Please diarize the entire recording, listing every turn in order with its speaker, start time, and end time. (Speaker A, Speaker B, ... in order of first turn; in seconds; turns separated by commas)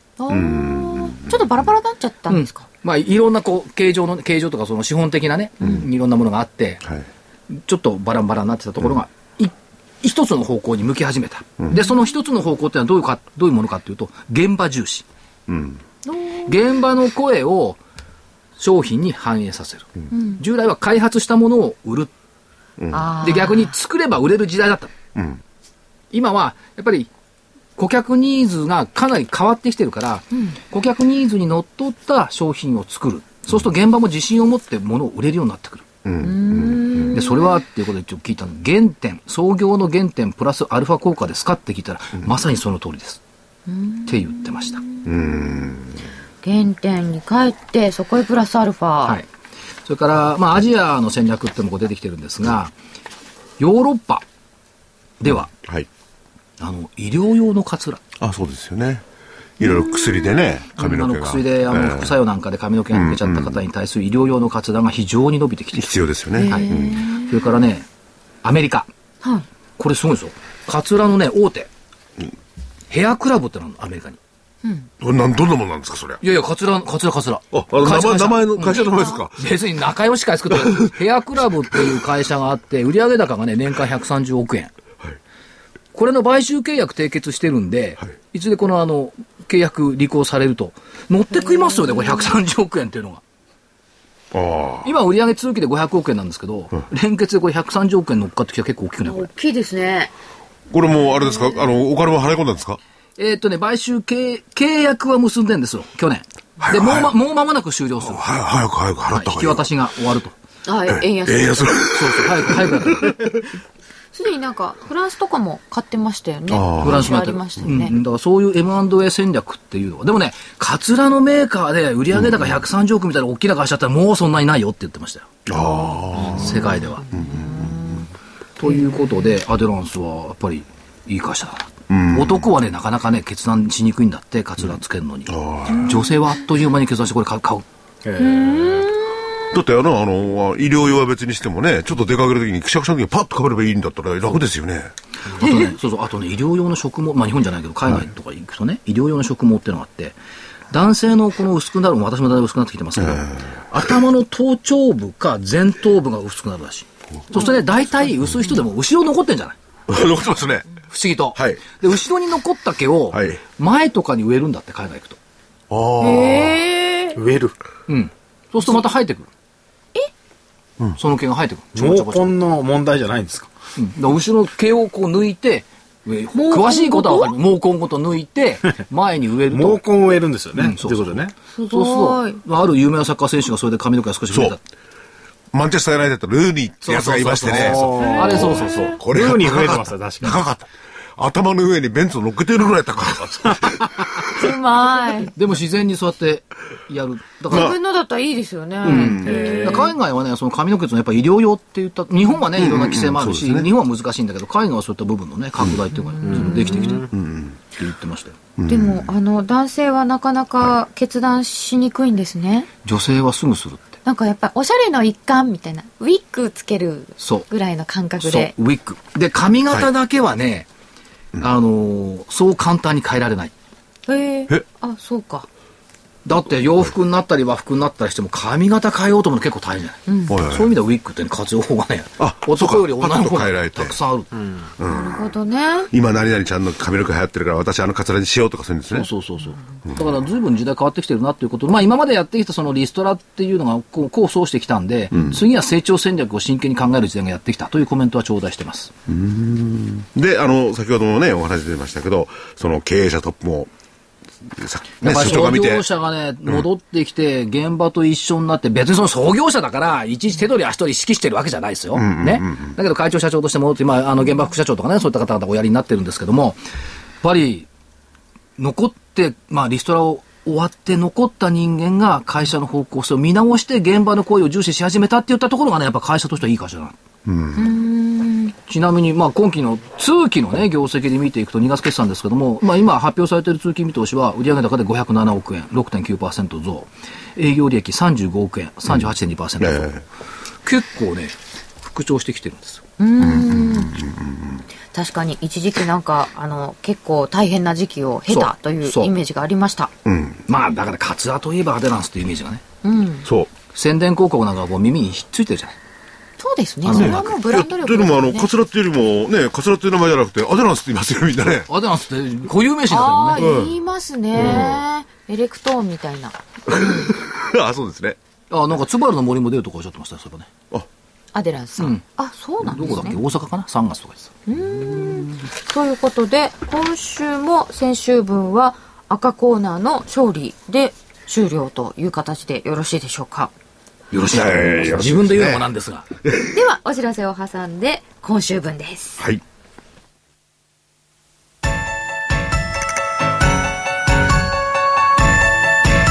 Speaker A: 0.2-2.7, Speaker B: 0.3-1.4, Speaker C: 2.3-6.9, Speaker C: 7.5-15.1, Speaker A: 11.8-12.0, Speaker B: 15.5-15.8, Speaker A: 16.1-16.6, Speaker C: 16.4-17.8, Speaker C: 18.6-22.1, Speaker A: 20.1-20.4, Speaker B: 22.8-23.1, Speaker A: 22.9-23.7, Speaker C: 23.2-24.9, Speaker B: 25.1-25.4, Speaker C: 26.1-27.1, Speaker C: 27.8-35.9, Speaker B: 36.0-37.1, Speaker A: 36.2-37.6, Speaker C: 37.1-43.2, Speaker A: 43.7-45.1, Speaker C: 44.0-44.8, Speaker B: 45.0-46.0, Speaker A: 46.4-49.2, Speaker C: 49.8-52.7, Speaker C: 53.6-54.2, Speaker C: 55.2-55.5, Speaker B: 55.5-55.9, Speaker C: 56.6-58.0, Speaker B: 58.2-59.0, Speaker B: 59.6-62.1, Speaker A: 59.6-60.5, Speaker C: 60.7-67.9, Speaker B: 62.9-63.6, Speaker B: 65.7-67.1, Speaker A: 66.3-67.5, Speaker C: 68.4-68.9, Speaker C: 69.8-71.7, Speaker C: 72.9-74.2, Speaker A: 74.6-74.9, Speaker B: 75.0-76.2, Speaker C: 76.2-84.7, Speaker B: 77.5-79.4, Speaker A: 78.6-79.2, Speaker C: 85.9-93.2, Speaker A: 91.4-92.3, Speaker B: 94.3-94.9, Speaker C: 94.8-99.3, Speaker A: 99.0-100.1, Speaker B: 100.7-102.8, Speaker C: 103.2-108.3, Speaker B: 106.6-107.1, Speaker B: 108.0-109.6, Speaker C: 109.1-110.3, Speaker A: 110.7-111.8, Speaker B: 110.9-113.3, Speaker C: 111.9-113.1, Speaker A: 114.1-117.9, Speaker B: 116.5-117.1, Speaker C: 116.8-125.3, Speaker B: 125.5-126.6, Speaker A: 125.5-128.1, Speaker C: 126.1-127.1, Speaker B: 127.1-127.8, Speaker C: 128.6-137.6, Speaker A: 128.7-129.2, Speaker B: 131.9-132.4, Speaker B: 135.3-135.9, Speaker A: 135.7-136.2, Speaker D: 138.0-138.8, Speaker A: 138.2-139.4, Speaker B: 139.5-144.9, Speaker C: 145.3-150.2, Speaker A: 145.4-145.7, Speaker C: 150.7-159.6, Speaker B: 153.0-153.6, Speaker B: 159.9-160.7, Speaker C: 160.9-165.2, Speaker B: 161.3-161.6, Speaker B: 163.1-163.4, Speaker B: 165.7-166.6, Speaker A: 166.0-167.2, Speaker D: 167.2-167.6, Speaker C: 167.9-169.3, Speaker C: 171.0-172.3, Speaker D: 171.7-173.5, Speaker C: 173.8-179.8, Speaker A: 176.3-177.3, Speaker D: 179.5-181.3, Speaker C: 180.6-184.6, Speaker A: 181.5-182.4, Speaker B: 184.3-184.6, Speaker B: 185.5-194.4, Speaker C: 186.8-188.9, Speaker D: 187.5-190.4, Speaker A: 188.0-188.8, Speaker A: 194.3-195.3, Speaker C: 195.3-197.7, Speaker A: 197.5-199.9, Speaker B: 198.8-199.8, Speaker C: 198.8-207.1, Speaker B: 202.6-203.7, Speaker A: 206.1-207.1, Speaker D: 206.3-206.9, Speaker B: 207.1-207.6, Speaker C: 207.8-208.4, Speaker B: 208.6-209.1, Speaker A: 208.7-212.7, Speaker C: 212.8-214.0, Speaker A: 214.0-218.5, Speaker C: 217.2-217.5, Speaker C: 218.2-220.7, Speaker C: 221.4-223.5, Speaker A: 224.1-225.5, Speaker C: 226.2-234.3, Speaker A: 230.1-230.3, Speaker B: 230.3-230.7, Speaker B: 232.2-233.9, Speaker D: 234.3-234.7, Speaker B: 234.8-235.3, Speaker A: 234.8-235.9, Speaker B: 235.9-239.1, Speaker C: 238.9-248.9, Speaker B: 249.1-253.7, Speaker B: 254.4-255.8, Speaker C: 255.0-266.6, Speaker B: 261.9-262.7, Speaker C: 267.2-267.7, Speaker C: 268.6-277.0, Speaker B: 277.2-277.7, Speaker A: 277.6-278.6, Speaker C: 278.7-289.9, Speaker B: 289.6-290.0, Speaker C: 290.6-292.8, Speaker A: 293.0-294.0, Speaker B: 293.2-294.6, Speaker A: 294.9-299.9, Speaker C: 298.3-299.1, Speaker B: 300.0-300.4, Speaker C: 300.5-302.6, Speaker A: 302.8-303.3, Speaker B: 303.2-303.5, Speaker C: 303.7-305.8, Speaker A: 306.4-308.5, Speaker C: 306.8-307.3, Speaker B: 306.9-311.7, Speaker C: 311.7-313.5, Speaker A: 312.9-317.1, Speaker B: 313.4-313.8, Speaker B: 314.3-314.8, Speaker B: 316.7-318.2, Speaker C: 318.5-320.5, Speaker A: 321.3-323.2, Speaker C: 321.8-322.0, Speaker C: 322.6-324.3, Speaker A: 324.5-333.5, Speaker C: 334.1-336.1, Speaker B: 334.3-335.6, Speaker B: 336.2-336.6, Speaker A: 336.5-339.2